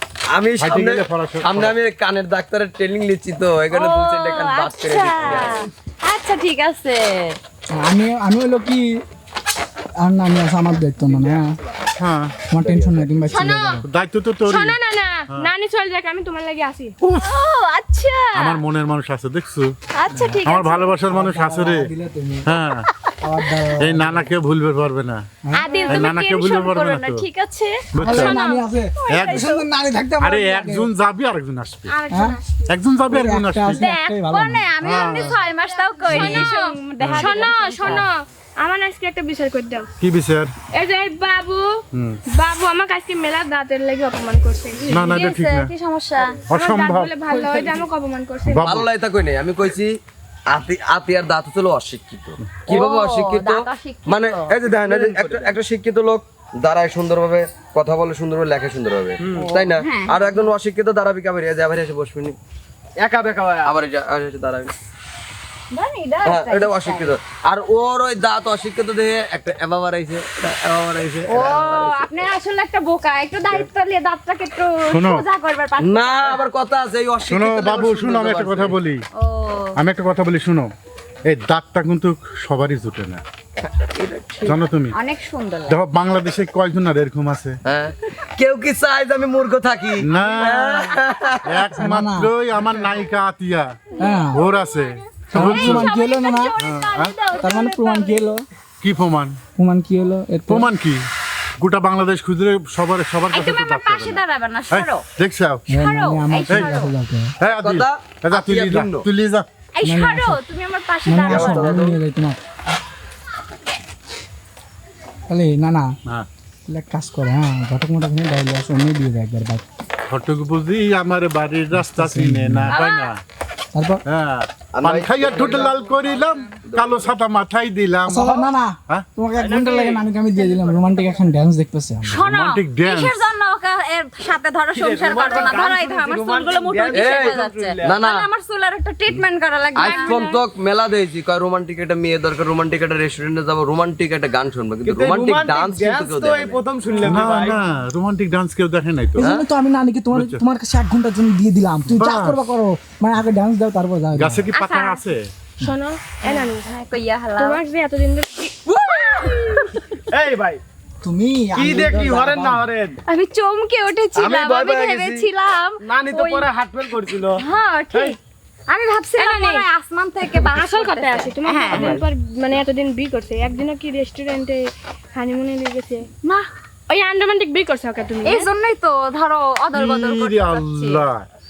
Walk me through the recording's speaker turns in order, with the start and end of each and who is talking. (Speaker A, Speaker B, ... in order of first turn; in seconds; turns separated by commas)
Speaker A: 0.3-5.6, Speaker B: 0.6-1.8, Speaker C: 3.7-7.4, Speaker D: 7.8-8.9, Speaker D: 10.0-11.5, Speaker B: 12.0-12.4, Speaker D: 12.5-13.8, Speaker E: 13.3-13.8, Speaker B: 13.9-14.8, Speaker E: 14.5-16.9, Speaker C: 17.2-18.6, Speaker B: 18.3-19.7, Speaker C: 19.9-21.0, Speaker D: 20.1-20.4, Speaker B: 20.4-21.9, Speaker D: 21.1-22.5, Speaker B: 22.5-22.9, Speaker D: 23.2-24.3, Speaker B: 23.8-25.2, Speaker C: 25.5-27.9, Speaker E: 25.7-26.1, Speaker B: 25.9-27.3, Speaker B: 27.9-28.4, Speaker D: 28.0-30.9, Speaker E: 28.0-28.6, Speaker C: 29.0-29.6, Speaker B: 29.1-29.6, Speaker B: 30.2-32.0, Speaker E: 31.9-32.6, Speaker D: 32.1-32.4, Speaker B: 32.7-33.9, Speaker D: 33.1-34.7, Speaker C: 33.7-38.1, Speaker B: 34.8-35.4, Speaker E: 36.0-39.9, Speaker B: 36.1-36.5, Speaker B: 37.0-38.0, Speaker B: 40.0-40.5, Speaker E: 40.7-41.6, Speaker E: 42.3-45.1, Speaker B: 44.9-45.7, Speaker C: 44.9-46.4, Speaker B: 46.5-47.1, Speaker E: 46.5-48.7, Speaker D: 47.4-47.8, Speaker B: 48.5-48.9, Speaker A: 48.6-49.9, Speaker A: 50.5-62.4, Speaker C: 52.6-54.5, Speaker F: 54.7-55.6, Speaker F: 59.2-59.5, Speaker C: 59.4-60.2, Speaker F: 63.0-63.8, Speaker A: 63.6-64.7, Speaker C: 65.7-67.1, Speaker A: 66.2-72.0, Speaker C: 71.3-76.5, Speaker B: 74.9-75.3, Speaker A: 75.8-78.8, Speaker B: 77.3-79.0, Speaker C: 79.2-79.8, Speaker B: 79.8-80.7, Speaker B: 81.2-83.2, Speaker A: 83.7-84.6, Speaker B: 84.4-85.0, Speaker C: 84.9-85.8, Speaker B: 85.7-87.6, Speaker A: 87.7-91.7, Speaker B: 90.0-90.9, Speaker B: 91.5-93.8, Speaker D: 91.8-92.3, Speaker D: 94.0-94.4, Speaker C: 94.0-94.3, Speaker B: 94.3-95.9, Speaker D: 95.3-96.6, Speaker C: 95.3-97.8, Speaker B: 96.6-97.2, Speaker E: 97.3-98.2, Speaker D: 97.4-98.5, Speaker B: 98.8-99.4, Speaker D: 99.6-100.7, Speaker B: 100.5-101.0, Speaker B: 101.6-104.2, Speaker C: 103.3-105.0, Speaker B: 104.7-105.7, Speaker C: 105.7-106.9, Speaker D: 105.7-107.3, Speaker B: 106.5-106.8, Speaker B: 107.4-109.5, Speaker A: 107.5-109.1, Speaker C: 109.8-111.8, Speaker D: 109.8-110.4, Speaker D: 111.1-112.4, Speaker A: 111.3-112.0, Speaker D: 115.3-115.9, Speaker D: 116.7-119.6, Speaker B: 120.1-123.2, Speaker D: 121.7-122.8, Speaker C: 122.7-123.1, Speaker D: 123.7-124.0, Speaker B: 124.1-129.1, Speaker A: 124.7-125.7, Speaker A: 126.7-127.1, Speaker D: 128.1-132.2, Speaker F: 129.3-130.1, Speaker C: 132.0-140.4, Speaker B: 132.2-133.3, Speaker F: 134.7-138.0, Speaker A: 136.9-138.3, Speaker A: 139.8-146.6, Speaker E: 139.8-140.2, Speaker F: 144.8-147.6, Speaker B: 147.0-149.3, Speaker D: 149.2-154.5, Speaker A: 149.2-149.5, Speaker B: 150.1-150.4, Speaker B: 151.9-152.5, Speaker B: 154.2-155.3, Speaker C: 154.5-155.0, Speaker E: 155.6-156.7, Speaker C: 156.3-157.6, Speaker E: 157.4-158.6, Speaker C: 158.6-159.8, Speaker F: 160.1-160.6, Speaker D: 161.0-162.7, Speaker F: 161.5-163.0, Speaker C: 163.1-166.5, Speaker A: 164.2-165.3, Speaker F: 165.8-168.2, Speaker C: 167.3-168.2, Speaker C: 168.7-172.0, Speaker E: 169.2-169.6, Speaker E: 170.4-176.1, Speaker A: 171.7-172.0, Speaker E: 176.9-178.5, Speaker C: 178.2-181.0, Speaker B: 179.7-181.3